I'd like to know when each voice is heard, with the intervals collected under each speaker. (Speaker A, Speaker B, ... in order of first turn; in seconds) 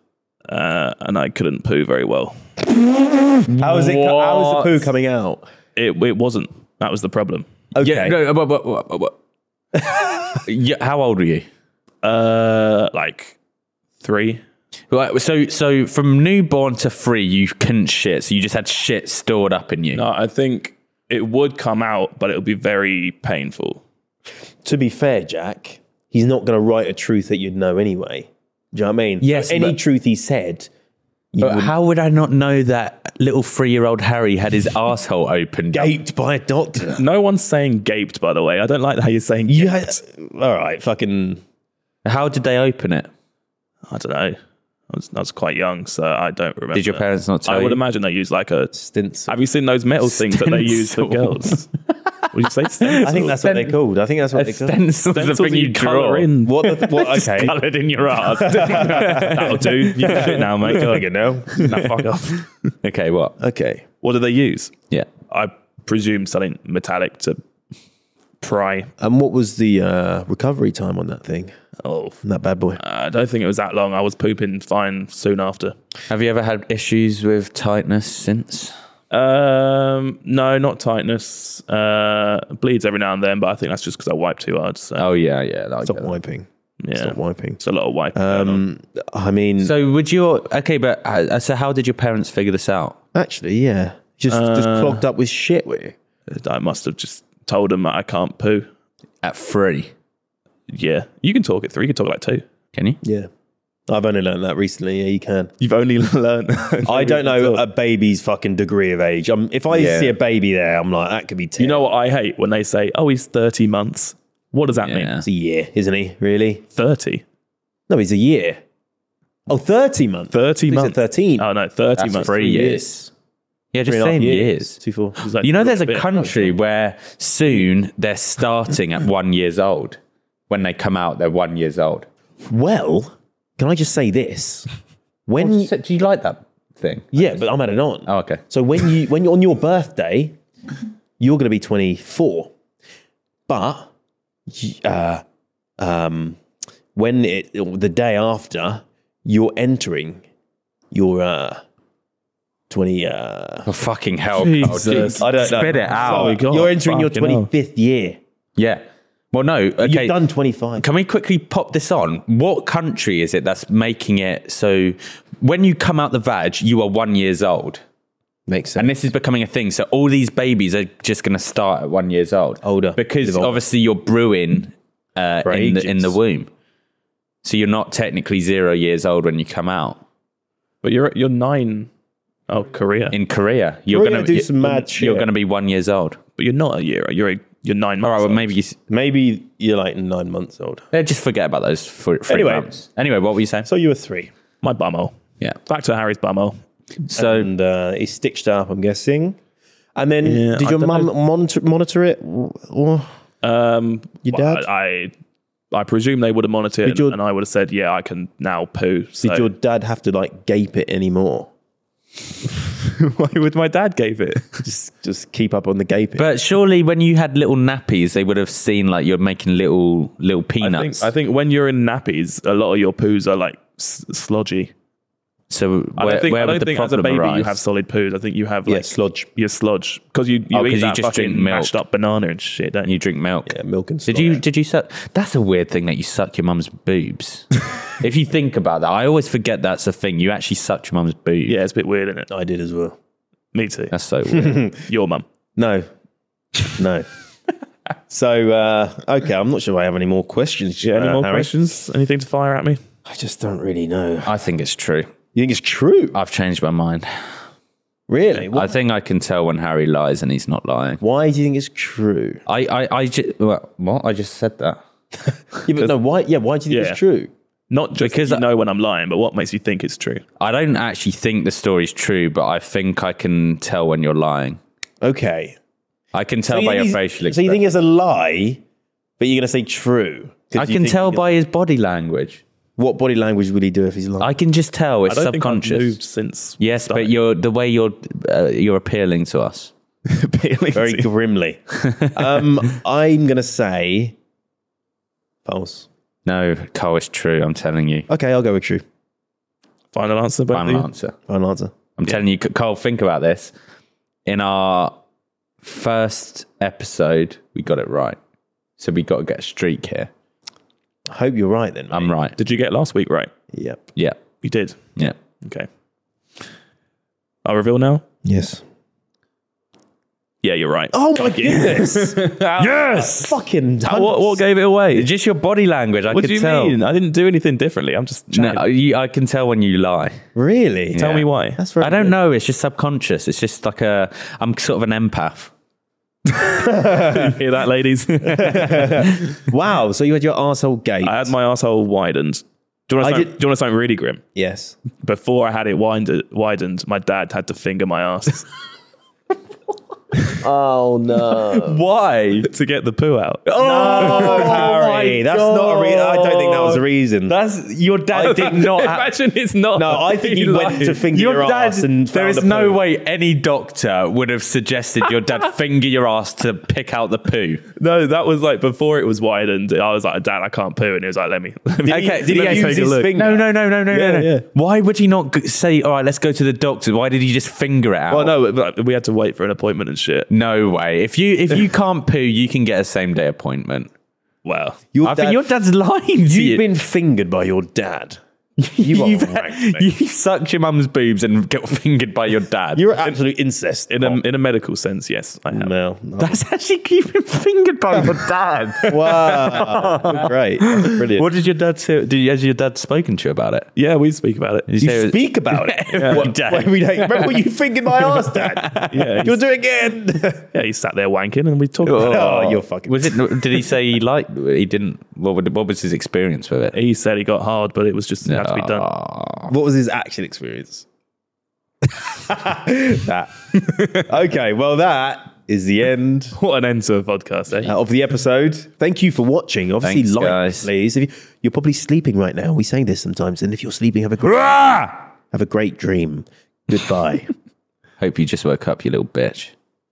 Speaker A: 0.5-2.4, 5.8-7.5, 12.0-13.3, 14.0-14.4, 19.9-23.8, 37.0-40.0, 43.9-44.4, 44.9-48.7, 49.3-51.7, 52.3-53.3, 55.1-56.7, 58.4-62.5, 64.0-64.7, 65.3-67.4, 68.4-68.9, 71.8-72.2, 72.8-75.7, 79.1-85.0, 86.8-88.6, 94.3-95.0, 96.3-98.7, 100.7-102.4, 105.6-107.7, 111.6-115.1, 116.7-117.2, 120.3-122.3, 125.2-126.1, 154.3-157.5, 180.8-181.9, 182.5-183.2, 186.4-188.5, 194.6-195.1, 195.7-196.6, 200.2-201.1, 203.4-205.1, 205.7-209.5, 212.7-214.7, 220.6-224.7, 226.0-232.9, 241.5-242.3, 243.5-243.9, 244.9-245.2, 250.8-252.8, 266.7-267.0, 267.7-270.2, 285.1-287.1, 290.1-291.1, 299.9-300.9, 312.4-313.3, 314.4-315.7, 317.4-318.0, 320.4-325.1, 326.1-328.6, 330.9-331.6, 336.7-339.0, 341.0-344.2, 345.0-348.5, 352.4-354.8, 358.1-361.1, 367.8-373.2, 373.9-374.4, 378.1-380.3, 384.4-384.8, 393.9-395.7, 403.8-404.7, 405.9-406.3, 408.9-409.4, 410.5-412.4, 416.7-418.9, 426.3-427.7
Speaker B: 3.4-5.5, 7.7-8.2, 9.8-10.3, 24.6-30.7, 31.3-31.7, 35.7-37.0, 39.5-41.4, 48.7-49.3, 53.0-54.8, 56.4-57.6, 58.2-61.7, 63.4-63.8, 69.0-71.5, 72.2-72.8, 85.8-87.6, 88.1-89.7, 93.1-96.0, 103.0-103.3, 103.9-105.5, 106.8-111.8, 115.2-116.6, 117.9-118.6, 119.5-121.5, 122.0-123.1, 123.8-125.2, 132.5-134.7, 135.3-135.7, 137.1-140.4, 141.2-142.5, 143.5-143.9, 144.5-145.2, 145.8-146.4, 146.9-150.2, 150.9-151.6, 152.7-153.7, 155.2-158.2, 159.8-160.8, 168.5-168.9, 172.6-173.6, 175.4-176.1, 183.9-185.3, 188.9-190.8, 192.3-192.7, 193.6-194.3, 197.1-199.4, 199.9-203.1, 204.2-204.7, 206.8-207.2, 209.2-211.5, 214.6-216.3, 228.7-229.3, 233.4-234.4, 242.3-242.9, 244.3-244.8, 245.6-245.9, 246.6-247.1, 248.1-251.5, 253.1-254.3, 255.3-256.2, 258.1-258.7, 261.0-262.4, 265.6-267.3, 275.0-275.6, 276.5-278.6, 279.2-281.3, 282.8-284.3, 290.7-294.1, 295.4-295.9, 298.1-298.8, 301.3-301.7, 311.1-312.1, 313.5-313.8, 318.2-318.6, 320.9-324.4, 330.3-331.1, 331.6-332.1, 336.4-337.4, 338.2-341.3, 343.0-343.3, 344.3-344.8, 350.3-351.8, 353.6-357.3, 359.8-362.8, 371.8-374.3, 384.9-385.4, 386.2-388.2, 388.8-389.9, 392.7-394.2, 395.5-396.4, 398.9-401.3, 404.8-410.5, 412.0-413.3, 419.5-420.9, 422.0-423.3, 423.9-426.4, 427.6-437.3
Speaker C: 3.5-4.9, 7.8-9.1, 10.3-11.4, 14.9-20.0, 29.2-29.8, 31.4-35.9, 42.0-43.1, 46.7-47.8, 50.0-53.7, 54.3-60.7, 61.6-62.0, 62.8-63.3, 76.1-78.7, 85.0-86.1, 89.6-93.0, 99.2-99.9, 109.7-110.2, 114.8-115.2, 122.0-123.0, 123.7-124.8, 125.4-132.1, 135.4-137.4, 138.1-138.4, 153.7-156.4, 158.6-160.2, 160.8-167.8, 168.8-176.5, 177.4-180.0, 183.1-186.2, 188.0-188.8, 190.9-193.7, 197.0-197.5, 216.2-221.1, 225.5-227.6, 230.5-231.8, 232.8-233.5, 234.1-241.6, 243.9-244.6, 254.2-255.1, 256.1-257.1, 258.5-261.0, 262.4-264.8, 268.0-268.4, 270.4-274.6, 276.1-277.6, 280.6-282.4, 284.2-286.0, 286.6-289.7, 291.8-292.1, 296.2-298.1, 300.5-301.1, 302.0-303.5, 304.2-304.9, 305.6-308.2, 308.8-310.1, 311.9-312.4, 313.9-314.2, 324.9-326.8, 328.3-330.2, 330.9-331.3, 331.8-335.5, 351.3-352.5, 353.5-359.1, 361.1-367.6, 371.9-378.3, 380.3-383.9, 385.0-386.6, 388.6-393.1, 396.2-403.7, 404.7-407.4, 408.0-409.3, 411.8-416.8, 418.2-419.5, 429.8-430.7, 438.0-439.5